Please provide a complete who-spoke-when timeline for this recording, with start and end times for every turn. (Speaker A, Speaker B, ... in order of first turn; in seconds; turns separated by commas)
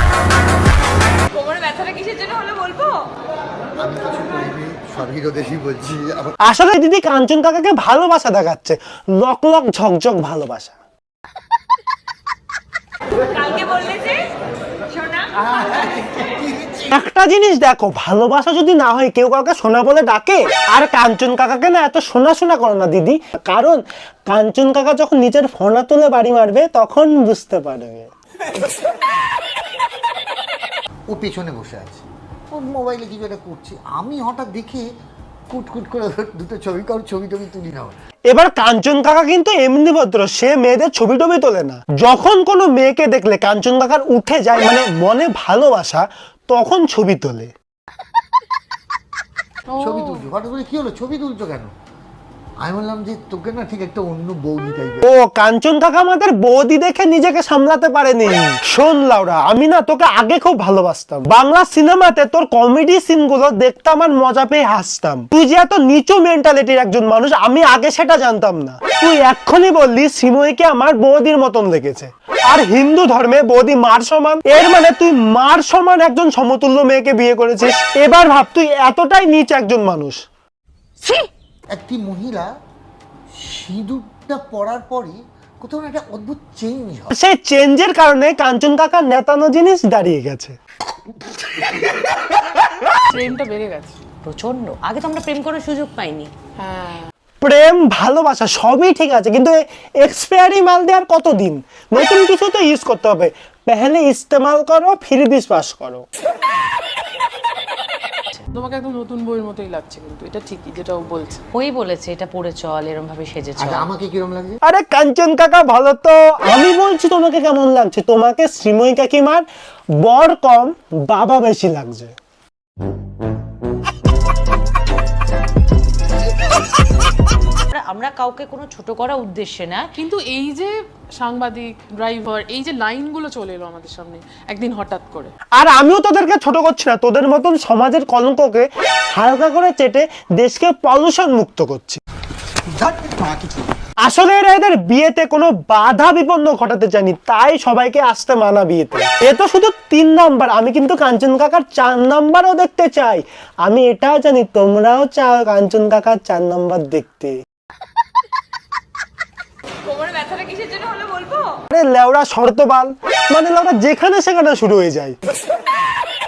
Speaker A: 3.8-6.3, Speaker B: 6.5-10.8, Speaker A: 15.3-16.9, Speaker B: 16.9-28.1, Speaker A: 31.1-34.9, Speaker A: 35.5-38.0, Speaker B: 38.3-47.5, Speaker C: 49.7-50.2, Speaker A: 49.8-51.7, Speaker A: 52.6-55.1, Speaker B: 55.0-80.2, Speaker A: 81.7-82.5, Speaker A: 83.4-87.1, Speaker B: 87.1-90.6, Speaker C: 93.1-94.0, Speaker D: 94.2-96.3, Speaker C: 96.6-97.1, Speaker B: 97.4-106.0, Speaker C: 108.5-111.4, Speaker D: 111.5-113.9, Speaker A: 113.6-114.6, Speaker B: 114.7-119.5, Speaker B: 120.0-122.1, Speaker D: 127.7-129.9, Speaker C: 130.0-135.3, Speaker B: 135.6-142.0, Speaker A: 142.7-143.7, Speaker B: 144.0-157.4, Speaker B: 161.7-165.2